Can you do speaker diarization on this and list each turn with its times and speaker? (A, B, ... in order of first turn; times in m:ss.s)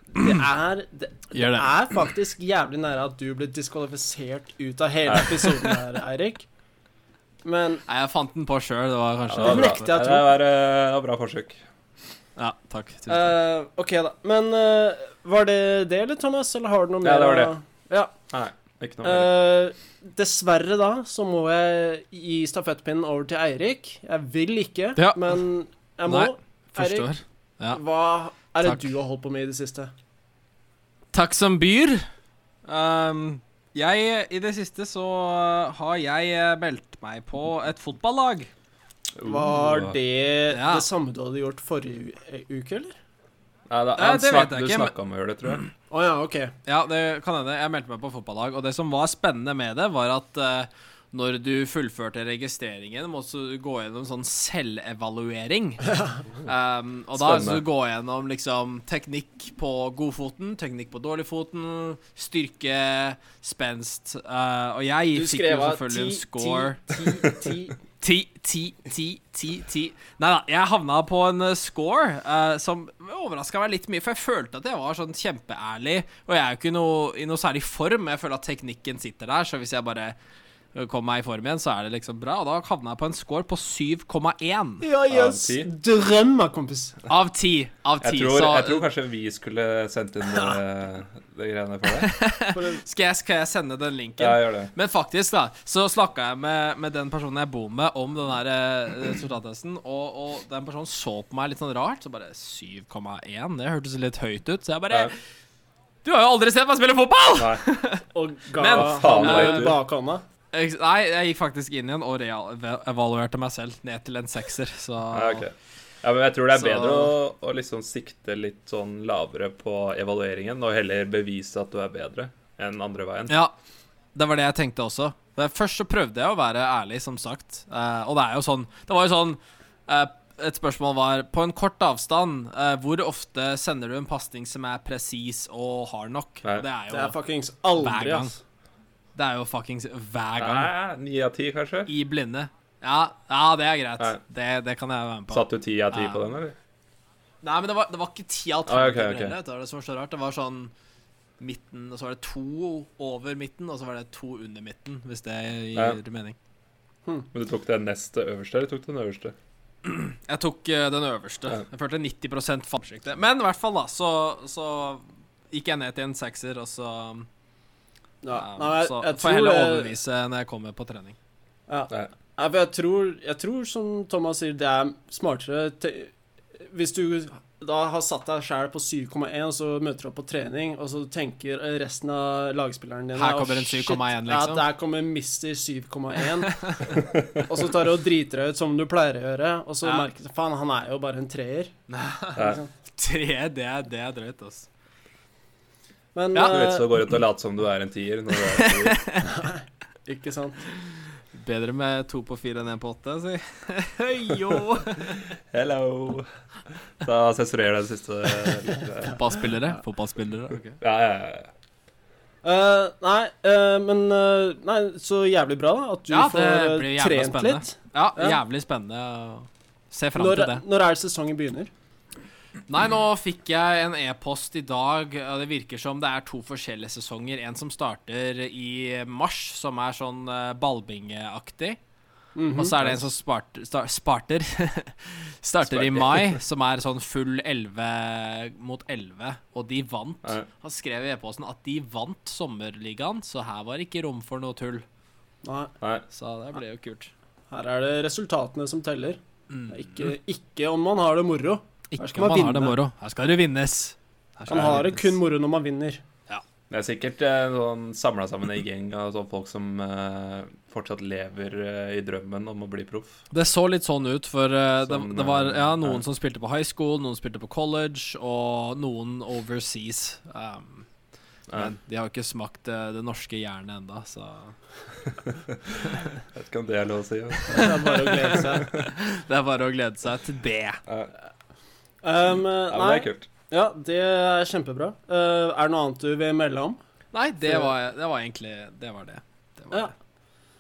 0:00.1-0:06.5 A
0:01.3-0:01.8 B
0:05.5-0:05.8 B
0:07.4-0:07.8 A
0:07.9-0:09.9 B
0:09.3-0:11.6 C
0:09.4-0:10.3 A
0:12.4-0:13.4 B
0:13.1-0:18.1 A
0:17.0-0:17.5 C
0:18.3-0:19.3 C
0:19.0-0:27.1 A
0:25.0-0:25.4 B
0:26.1-0:27.8 B
0:27.7-0:29.9 A
0:28.6-0:28.9 B
0:31.1-0:32.1 B
0:32.7-0:38.5 B
0:39.2-0:40.0 C
0:39.2-0:43.0 A
0:40.5-0:40.9 B
0:43.7-0:45.7 C
0:44.0-0:44.9 B
0:45.9-0:46.5 A
0:46.7-1:07.0 B
0:57.2-0:57.6 C
1:05.1-1:07.8 A
1:08.0-1:20.2 B
1:20.7-1:24.9 B
1:24.8-1:27.0 A
1:25.1-1:25.7 C
1:27.1-1:28.9 B
1:28.0-1:32.1 C
1:30.3-1:30.6 A
1:31.9-1:45.1 B
1:32.5-1:32.8 A
1:34.2-1:34.7 C
1:46.0-1:48.0 B
1:47.4-1:47.6 C
1:48.1-1:50.2 A
1:48.6-1:49.8 B
1:48.7-1:49.8 C
1:50.5-1:55.4 B
1:55.1-2:03.4 C
1:56.5-1:57.1 B
2:04.2-2:17.2 B
2:16.9-2:18.4 A
2:17.8-2:18.4 B
2:19.2-2:20.7 B
2:20.4-2:21.9 C
2:21.9-2:26.2 B
2:25.3-2:26.6 C
2:27.4-2:30.7 B
2:28.7-2:29.4 C
2:31.4-2:36.4 B
2:37.3-2:39.4 C
2:39.8-2:47.3 B
2:48.2-2:49.9 A
2:48.3-2:51.2 B
2:51.7-3:11.7 A
3:03.2-3:04.7 B
3:06.5-3:06.9 B
3:07.0-3:07.5 C
3:11.9-3:14.7 B
3:12.4-3:12.6 C
3:12.4-3:12.7 A
3:16.2-3:17.0 A
3:16.4-3:16.6 B
3:16.4-3:19.1 C
3:18.4-3:19.3 B
3:19.3-3:20.6 A
3:21.3-3:25.2 B
3:25.5-3:26.3 C
3:27.0-3:29.2 C
3:29.0-3:30.8 B
3:30.8-3:31.5 C
3:32.4-3:38.4 A
3:36.1-3:40.6 B
3:40.2-3:41.7 A
3:42.7-3:51.8 B
3:52.4-3:52.8 A
3:52.6-4:04.8 B
3:55.6-3:56.4 C
4:05.4-4:05.7 A
4:06.1-4:07.1 B
4:07.5-4:12.8 A
4:09.5-4:10.1 B
4:11.9-4:15.0 B
4:14.5-4:14.8 C
4:14.5-4:16.0 A
4:16.7-4:23.2 C
4:23.3-4:30.9 B
4:24.8-4:26.0 C
4:31.5-4:34.6 B
4:35.1-4:38.3 C
4:37.5-4:38.7 A
4:37.5-4:40.8 B
4:42.0-4:46.8 A
4:42.7-4:43.3 C
4:47.1-4:49.9 B